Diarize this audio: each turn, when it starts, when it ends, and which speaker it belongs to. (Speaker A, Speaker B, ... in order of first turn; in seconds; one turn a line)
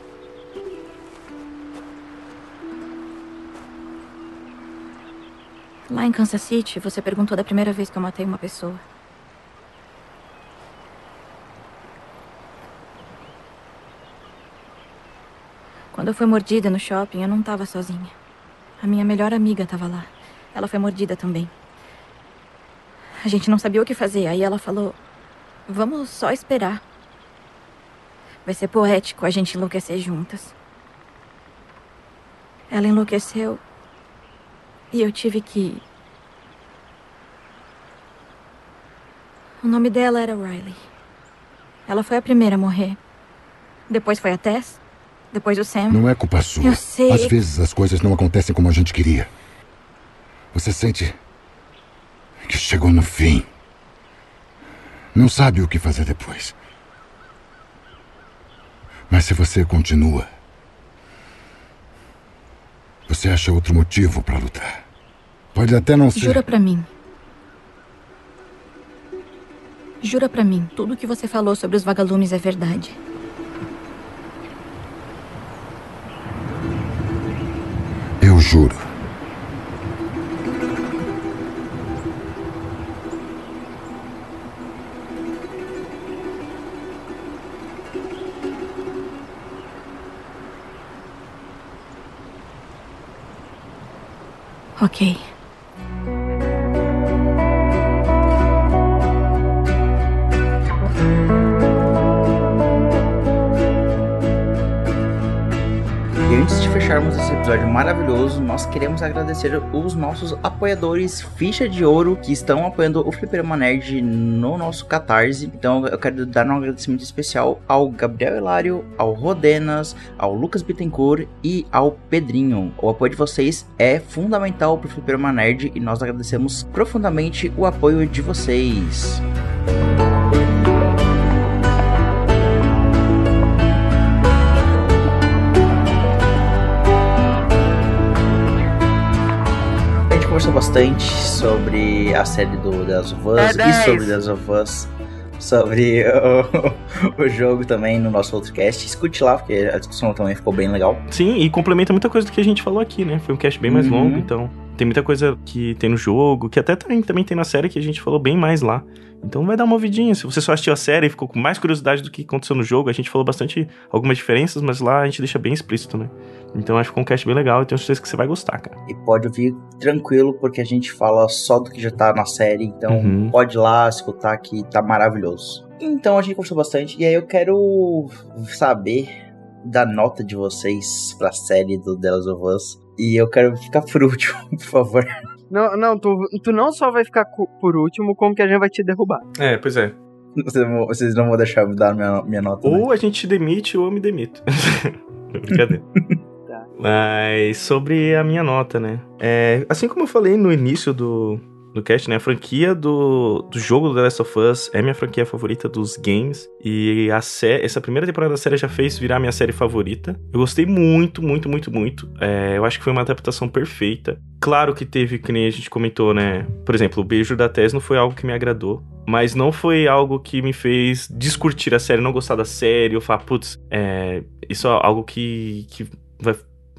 Speaker A: 5.9-8.8
Speaker A: 15.9-18.1
Speaker A: 18.8-21.5
Speaker A: 23.2-25.0
Speaker A: 25.7-26.8
Speaker A: 28.4-30.5
Speaker A: 32.7-33.6
Speaker A: 34.9-35.8
Speaker A: 39.6-40.8
Speaker A: 41.9-43.0
Speaker A: 43.9-44.8
Speaker A: 45.3-46.0
Speaker B: 45.9-49.3
Speaker A: 46.6-47.4
Speaker B: 50.5-51.2
Speaker B: 52.5-53.5
Speaker B: 55.1-56.5
Speaker B: 59.1-60.3
Speaker B: 63.1-64.8
Speaker B: 65.5-66.5
Speaker A: 66.1-66.9
Speaker A: 70.0-73.0
Speaker B: 78.2-78.8
Speaker A: 94.8-95.2
Speaker C: 106.2-129.2
Speaker C: 140.1-151.0
Speaker D: 143.6-144.0
Speaker D: 151.1-168.8
Speaker C: 153.7-154.3
Speaker C: 168.9-179.1
Speaker D: 172.9-173.3
Speaker C: 179.6-185.2
Speaker E: 185.5-189.2
Speaker D: 189.4-189.9
Speaker C: 190.4-192.9
Speaker D: 192.6-195.8
Speaker D: 196.8-226.4